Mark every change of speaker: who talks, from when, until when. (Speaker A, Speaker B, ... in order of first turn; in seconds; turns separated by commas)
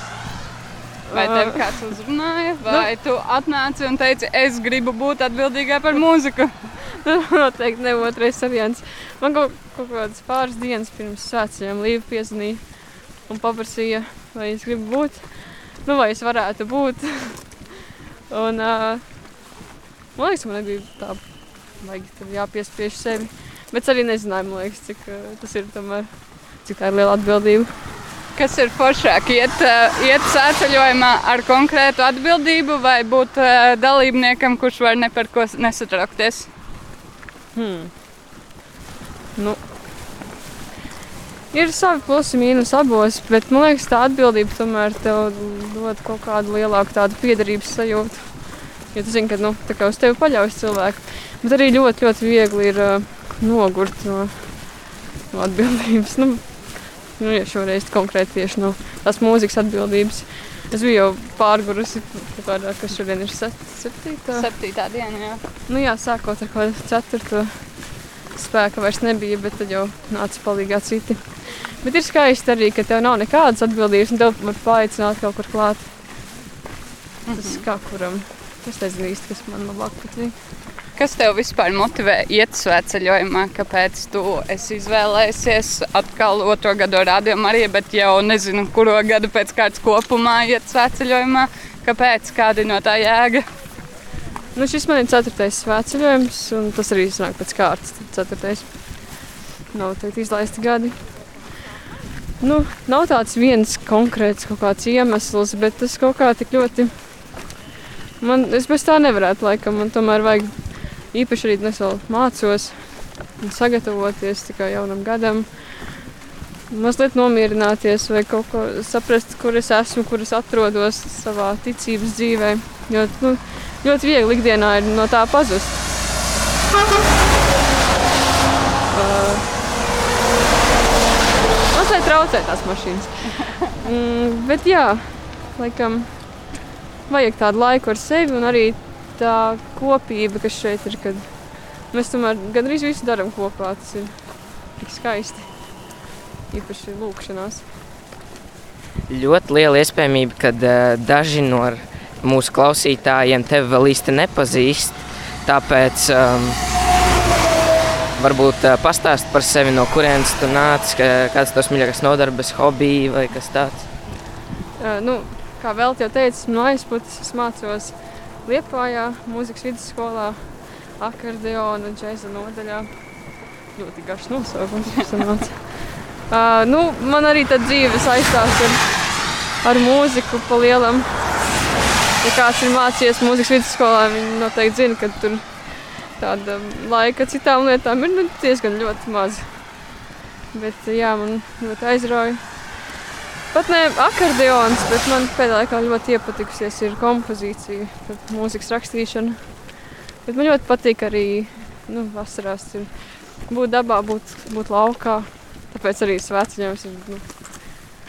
Speaker A: 1.1-1.6, Speaker B: 1.1-6.5, Speaker A: 7.0-12.6, Speaker A: 13.3-17.5, Speaker A: 18.3-19.0, Speaker A: 20.2-21.2, Speaker A: 21.8-26.1, Speaker A: 26.6-27.7, Speaker B: 28.4-36.5, Speaker A: 37.5-37.9, Speaker A: 41.5-48.3, Speaker A: 48.9-54.5, Speaker A: 55.3-56.4, Speaker A: 57.2-64.5, Speaker B: 64.3-65.4, Speaker A: 65.7-67.5, Speaker A: 68.3-75.9, Speaker B: 77.3-77.6, Speaker A: 77.3-80.3, Speaker B: 81.0-93.5, Speaker A: 94.5-98.7, Speaker A: 99.7-101.0, Speaker A: 102.4-106.9, Speaker A: 108.2-110.5, Speaker A: 111.1-112.8, Speaker A: 113.4-115.5, Speaker A: 116.7-125.8, Speaker A: 128.9-129.5, Speaker A: 131.7-136.2, Speaker A: 137.1-141.3, Speaker A: 141.9-144.1, Speaker A: 144.8-145.5, Speaker A: 146.5-147.7, Speaker C: 149.1-156.6, Speaker C: 158.2-163.9, Speaker A: 164.8-170.4, Speaker A: 171.0-172.9, Speaker A: 173.8-178.8, Speaker A: 179.6-181.1, Speaker A: 182.2-185.4, Speaker A: 186.2-189.5, Speaker A: 190.5-192.4, Speaker A: 193.5-199.4, Speaker A: 200.3-202.9, Speaker A: 203.5-207.2